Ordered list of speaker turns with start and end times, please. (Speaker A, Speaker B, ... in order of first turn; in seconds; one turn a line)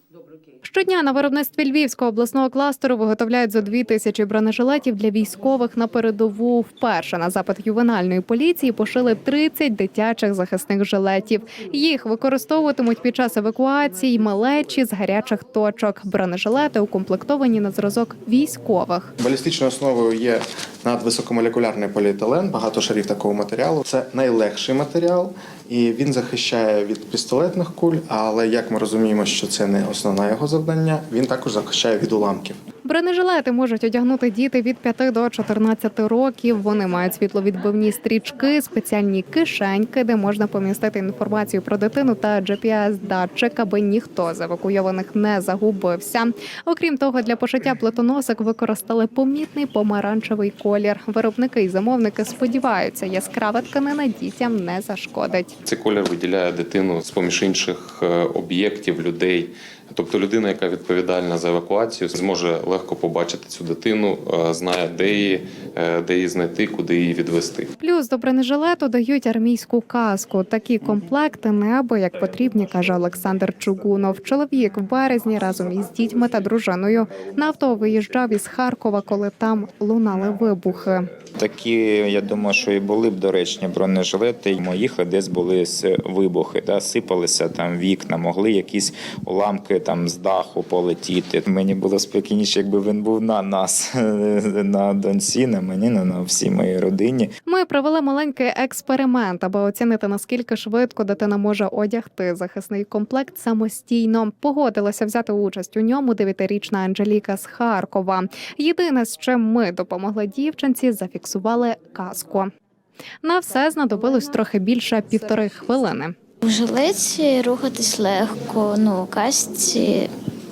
Speaker A: 0.7-19.1
Speaker B: 19.2-32.6
Speaker A: 32.9-55.5
Speaker C: 55.6-67.7
Speaker A: 67.8-81.1
Speaker D: 81.4-97.3
Speaker A: 97.5-112.5
Speaker A: 113.2-116.1
Speaker E: 116.4-120.1